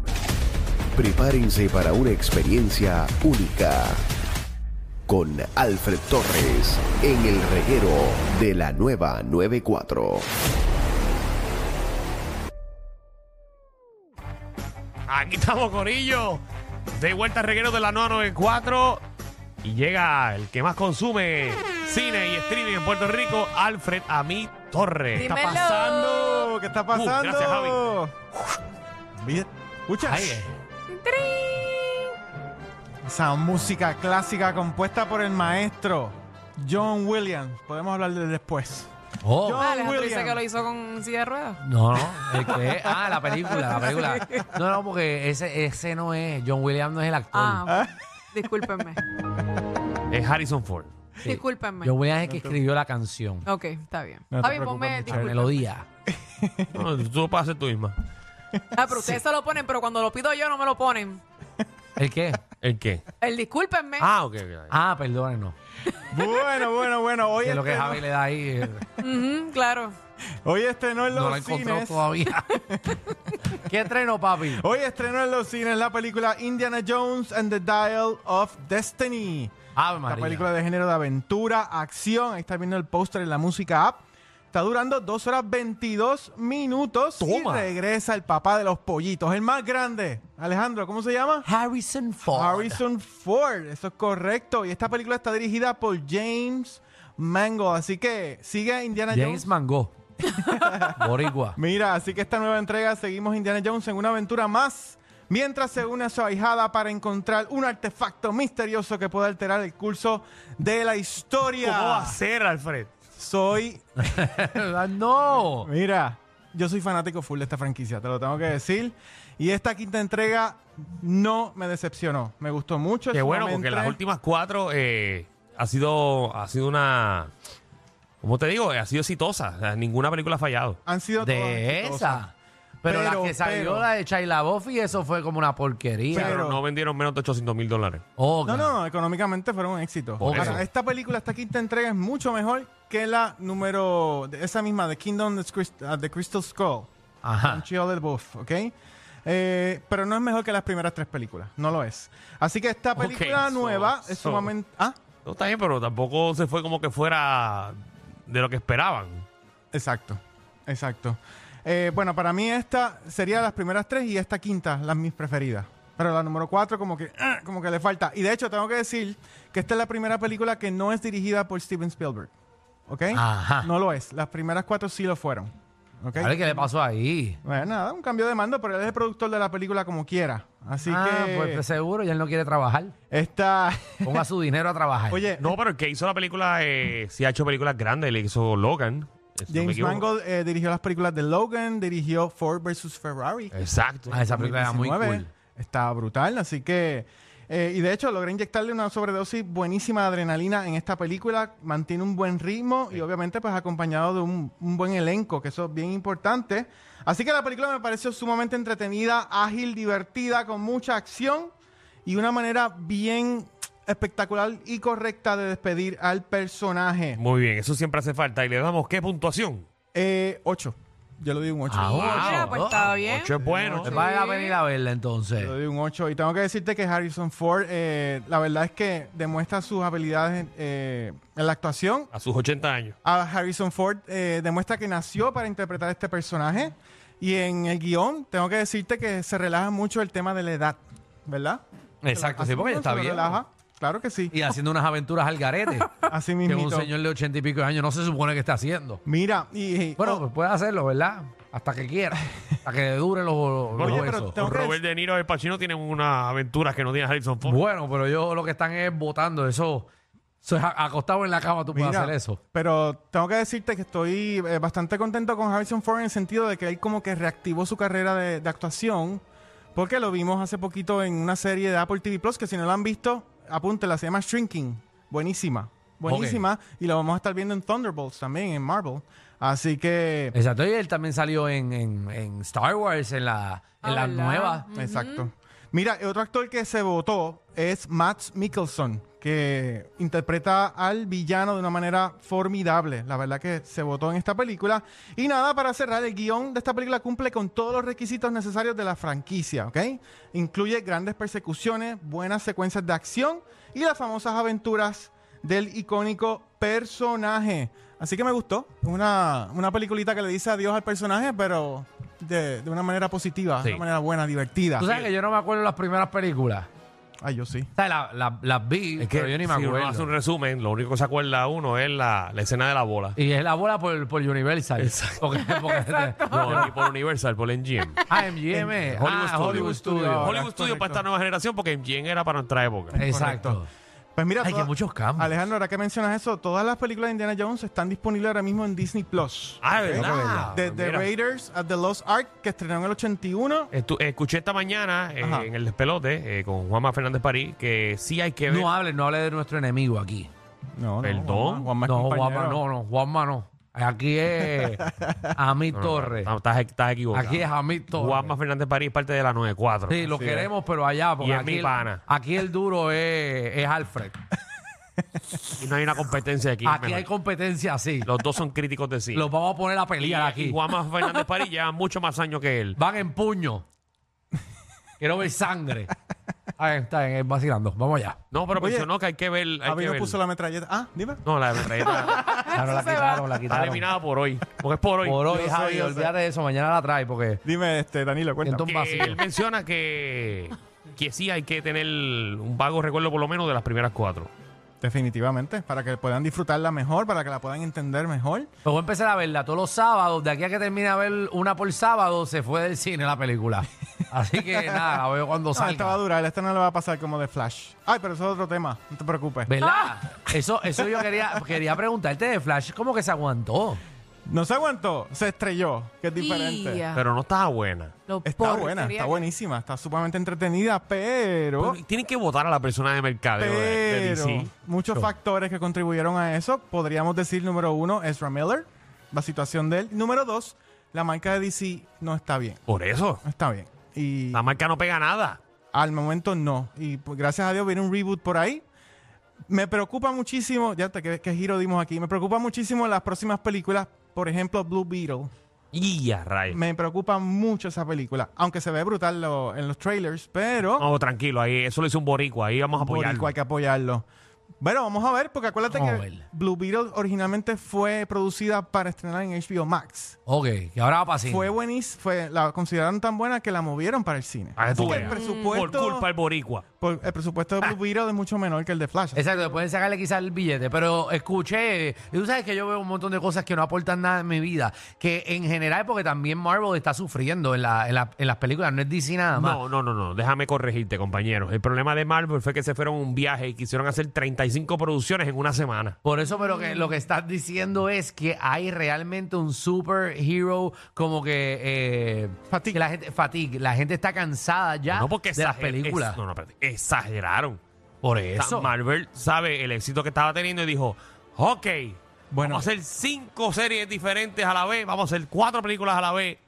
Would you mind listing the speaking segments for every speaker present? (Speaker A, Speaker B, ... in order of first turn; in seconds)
Speaker A: 0.9-4.0, 5.1-10.3
Speaker B: 15.1-16.4, 16.9-19.0, 19.6-25.6, 26.9-27.9, 50.1-50.9, 56.7-58.0, 62.6-63.0, 64.0-64.7, 111.6-112.9, 123.1-127.3, 128.2-130.8, 136.1-138.0, 140.2-140.6, 152.9-154.5, 155.2-159.2, 185.4-190.1, 193.5-194.2, 217.2-219.7, 221.9-223.9, 232.1-232.9, 253.8-257.6, 319.0-323.2, 324.8-325.3, 326.3-328.0, 328.9-333.0, 339.6-341.1, 343.7-348.7, 351.0-351.7, 355.7-360.1, 361.2-362.0, 365.6-367.1, 368.0-369.3, 370.0-372.8, 378.3-380.2, 381.2-382.3, 383.5-385.3, 388.6-394.3, 416.9-417.9, 421.6-425.1, 432.7-433.2, 434.3-435.4, 445.7-446.6, 450.8-453.3, 464.6-466.6, 479.3-486.0, 494.9-497.6, 498.4-506.4
Speaker C: 25.1-26.5, 30.9-32.1, 39.6-41.6, 43.4-44.5, 47.3-49.0, 51.2-51.9, 53.5-55.5, 58.8-61.2, 63.2-64.1, 69.0-69.9, 221.9-224.6, 283.8-285.3, 325.4-326.9, 382.2-383.4, 409.6-409.9, 416.2-417.0, 418.1-419.2, 464.8-465.6
Speaker D: 25.2-28.1, 29.2-30.4, 33.0-40.4, 52.3-52.6, 54.3-55.5, 56.2-56.8, 66.1-68.0, 70.4-73.0, 74.4-79.5, 80.0-91.5, 92.3-99.5, 100.3-101.0, 101.5-112.2, 113.2-114.1, 115.6-124.0, 130.8-132.2, 132.8-133.9, 136.1-136.6, 138.4-146.9, 147.4-148.7, 149.2-155.0, 159.7-172.3, 172.9-176.7, 177.4-181.6, 183.1-184.3, 185.1-185.6, 189.5-193.6, 194.1-211.5, 212.0-217.2, 219.9-222.2, 223.2-223.9, 225.4-232.1, 233.0-244.3, 246.1-246.9, 249.1-250.2, 253.8-254.8, 261.7-269.2, 269.7-280.3, 284.7-314.9, 317.2-317.7, 328.5-331.0, 332.9-333.6, 334.1-343.7, 345.2-345.5, 350.8-352.6, 354.5-355.3, 360.1-360.5, 378.6-378.9, 379.6-381.2, 381.8-382.3, 385.2-386.1, 387.4-388.7, 394.8-398.5, 404.5-404.9, 405.5-409.5, 414.3-416.8, 418.2-421.8, 423.4-432.6, 433.2-434.4, 435.7-438.6, 439.5-445.3, 446.5-450.9, 452.8-454.1, 454.6-460.1, 461.2-466.1, 466.8-469.3, 492.5-492.8, 502.3-502.7
Speaker E: 30.0-30.5, 39.2-39.7, 41.6-47.6, 51.2-53.5, 54.9-55.8, 58.9-59.2, 62.0-62.4, 64.7-65.5, 67.4-68.8, 71.1-72.5, 73.6-74.6, 79.7-80.5, 87.2-87.7, 91.4-92.8, 99.1-99.9, 100.9-101.6, 114.0-115.7, 131.2-136.4, 138.2-138.7, 140.2-140.6, 147.2-147.6, 173.1-173.7, 176.2-177.4, 180.8-182.9, 184.0-185.2, 194.1-195.3, 221.7-222.9, 223.8-225.5, 242.0-243.4, 244.3-249.0, 250.0-254.4, 257.4-259.9, 260.4-262.4, 276.1-276.5, 280.3-284.7, 314.8-316.7, 317.7-320.1, 323.1-326.7, 328.1-330.4, 333.0-333.7, 334.4-335.4, 339.9-340.5, 348.5-350.3, 351.8-356.3, 357.1-358.3, 359.9-364.2, 366.6-368.1, 369.1-370.6, 372.8-373.6, 375.0-375.9, 376.6-378.2, 382.5-383.9, 385.0-387.4, 388.4-389.2, 398.6-406.0, 409.4-413.8, 455.7-456.2, 460.2-461.5, 469.1-479.6, 486.0-496.2, 498.0-498.7